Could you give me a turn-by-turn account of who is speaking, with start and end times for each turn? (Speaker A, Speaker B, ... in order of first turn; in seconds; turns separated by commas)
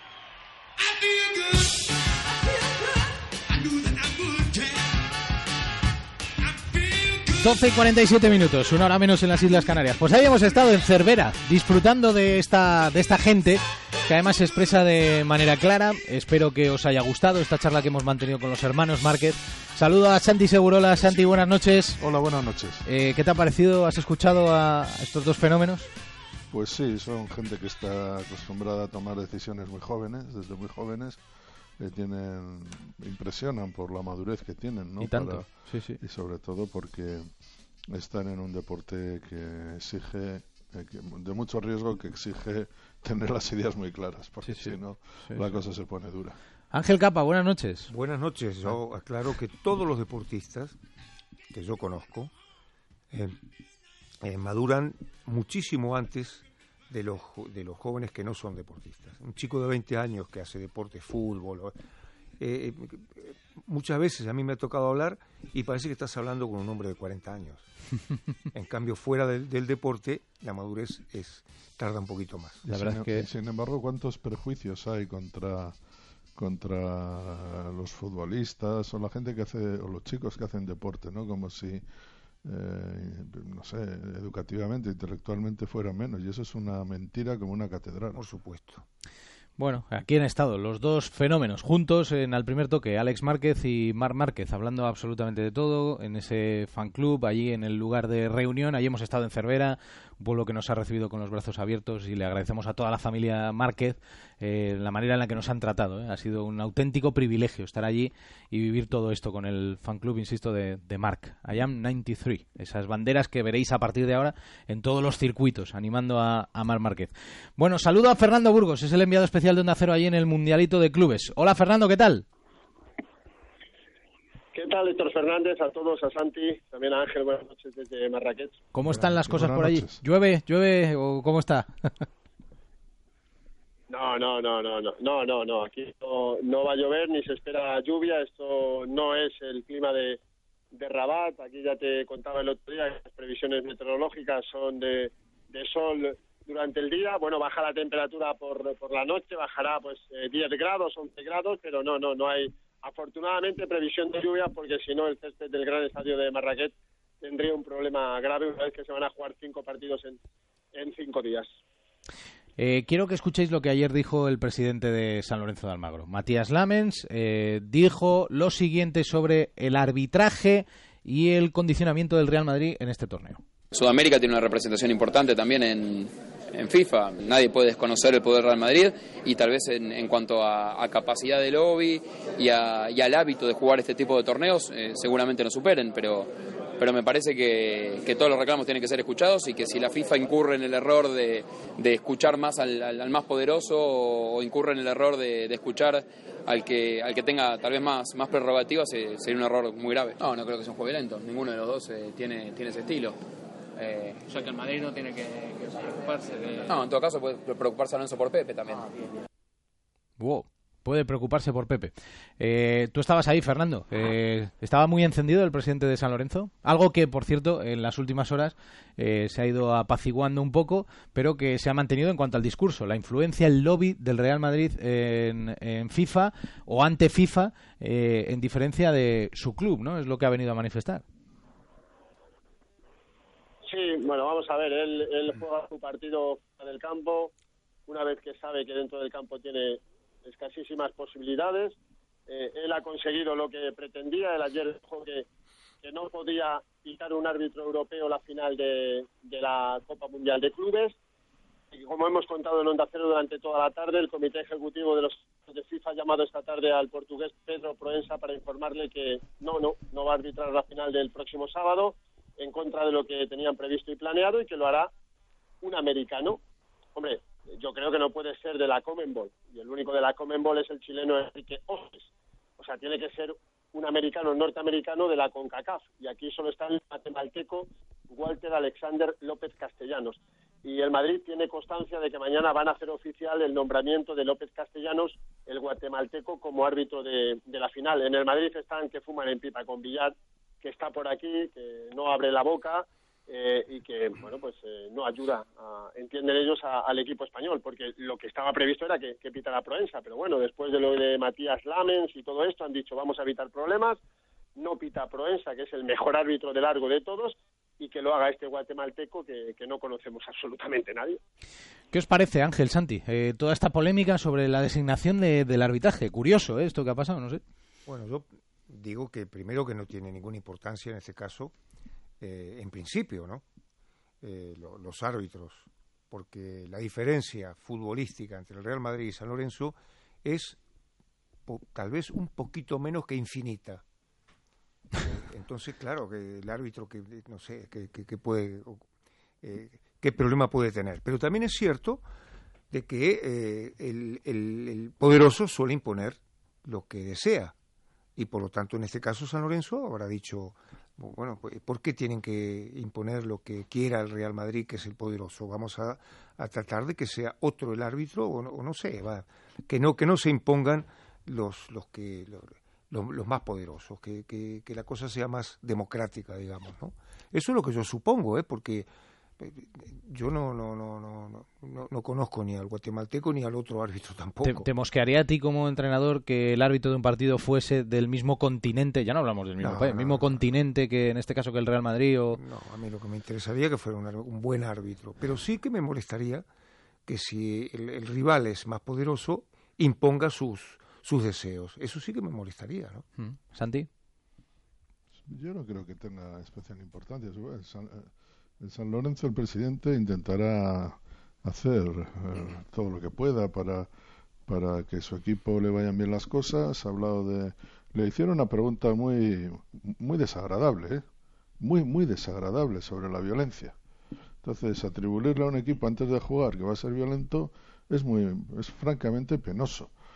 Speaker A: 7.4-22.0, Speaker B: 22.0-22.8, Speaker A: 22.8-25.9, Speaker B: 26.5-31.2, Speaker B: 31.8-37.3, Speaker A: 35.0-36.0, Speaker B: 37.9-46.4, Speaker A: 44.4-45.6, Speaker A: 46.7-47.9, Speaker C: 47.9-50.8, Speaker C: 51.5-52.3, Speaker C: 53.1-53.4, Speaker C: 54.2-61.8, Speaker C: 62.4-67.7, Speaker C: 68.5-72.6, Speaker B: 72.6-75.8, Speaker A: 72.7-73.3, Speaker B: 76.4-81.8, Speaker B: 82.5-88.2, Speaker C: 88.1-88.8, Speaker A: 89.6-122.2, Speaker D: 124.5-128.6, Speaker A: 128.7-132.1, Speaker B: 128.9-130.0, Speaker D: 133.9-140.2, Speaker D: 140.7-160.2, Speaker D: 160.8-161.5, Speaker A: 162.6-173.4, Speaker E: 173.7-203.2, Speaker F: 203.8-206.8, Speaker E: 206.7-208.8, Speaker A: 210.2-231.0, Speaker D: 233.7-237.3, Speaker D: 237.9-241.8, Speaker D: 242.3-245.3, Speaker D: 245.8-250.9, Speaker D: 251.7-264.9, Speaker D: 265.6-266.4, Speaker D: 267.0-304.0, Speaker D: 304.6-311.2, Speaker A: 311.9-317.4, Speaker C: 317.9-321.5, Speaker C: 322.2-323.4, Speaker C: 324.2-330.6, Speaker C: 331.5-333.8, Speaker C: 335.0-338.8, Speaker C: 339.4-342.0, Speaker C: 342.7-347.5, Speaker C: 348.2-368.9, Speaker C: 369.4-374.7, Speaker A: 374.4-382.4, Speaker C: 379.6-380.4, Speaker C: 382.4-386.4, Speaker C: 387.1-393.1, Speaker A: 393.2-393.9, Speaker B: 395.3-398.1, Speaker B: 398.6-403.9, Speaker B: 404.5-411.0, Speaker B: 411.6-413.8, Speaker B: 414.4-419.9